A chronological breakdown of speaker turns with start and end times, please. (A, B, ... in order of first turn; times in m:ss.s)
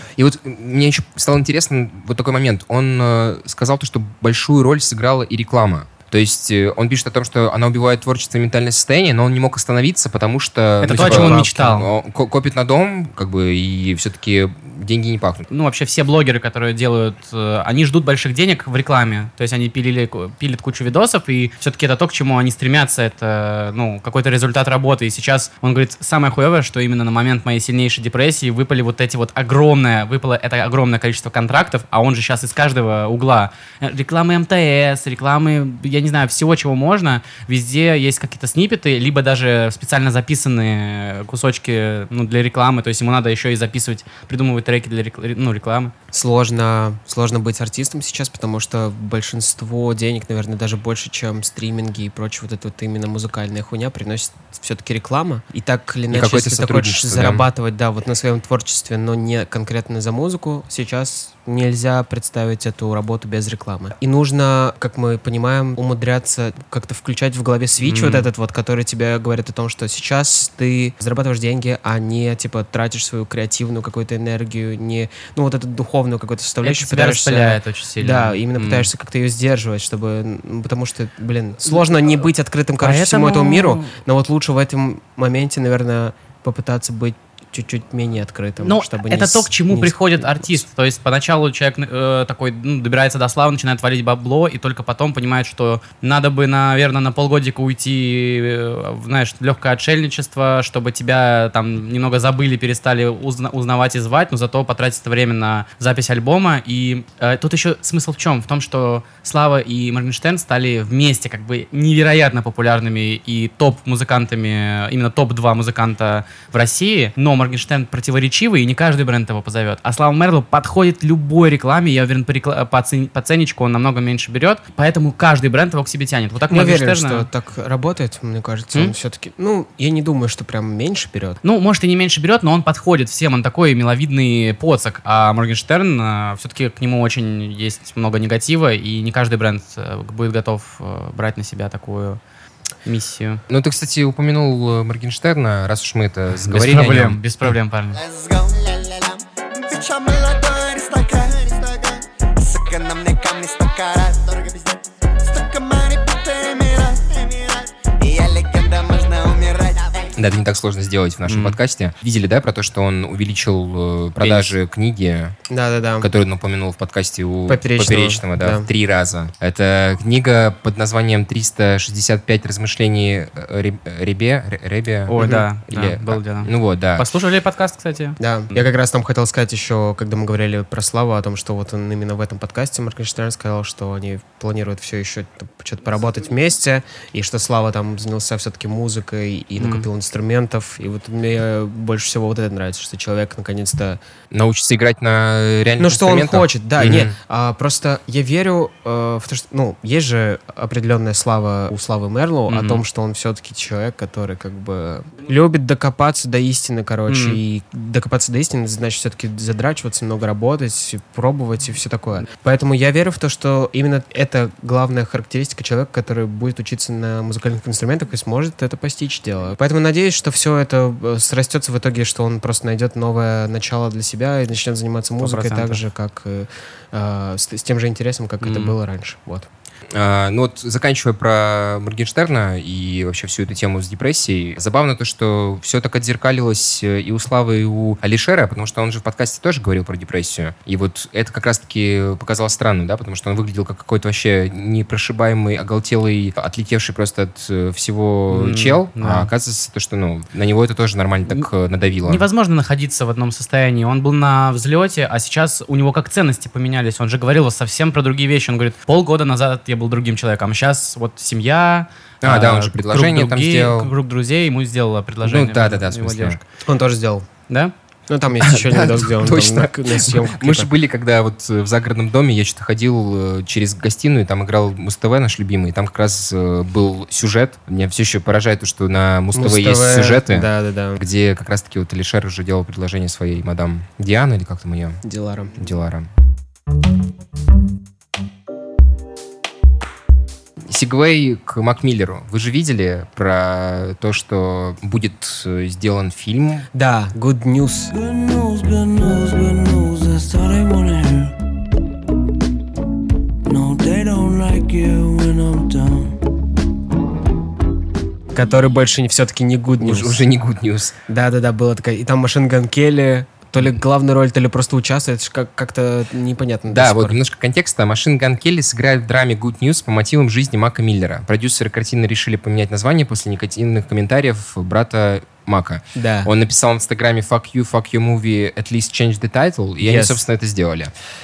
0:00.2-0:15.5 A
0:10.8-0:11.9 B
0:10.8-0:11.5 C
0:15.5-0:45.9 B
0:46.1-1:30.6 C
0:56.1-0:57.5 A
1:07.8-1:08.3 B
1:16.6-1:18.9 B
1:22.8-1:23.9 B
1:28.6-2:07.3 B
2:06.5-2:11.4 C
2:11.4-2:22.2 B
2:22.8-2:23.4 B
2:23.5-2:27.2 A
2:26.4-2:28.0 B
2:27.9-2:40.2 D
2:40.2-2:45.4 A
2:41.3-2:41.6 B
2:44.2-2:44.6 B
2:45.5-2:46.1 C
2:46.0-2:57.1 A
2:47.5-2:48.7 C
2:55.1-2:58.6 B
2:55.2-2:55.5 C
2:58.2-3:14.0 C
3:09.6-3:09.9 B
3:14.3-3:17.2 A
3:15.8-3:49.5 C
3:22.5-3:22.8 B
3:27.1-3:27.4 B
3:45.2-3:45.8 B
3:48.4-3:48.8 B
3:49.9-4:12.3 A
4:08.3-4:09.3 B
4:12.1-4:26.4 B
4:22.2-4:23.9 A
4:25.2-4:26.4 A
4:26.6-4:27.3 C
4:28.1-4:30.7 C
4:28.4-4:45.0 A
4:39.3-4:41.0 C
4:45.0-4:45.6 C
4:45.6-4:46.1 A
4:50.7-4:56.7 A
4:56.7-4:57.9 C
4:57.9-5:01.3 E
5:03.5-5:06.2 E
5:08.3-5:10.3 C
5:09.8-5:11.0 A
5:11.1-5:17.2 C
5:16.7-5:30.9 A
5:26.0-5:26.3 C
5:29.8-5:30.2 C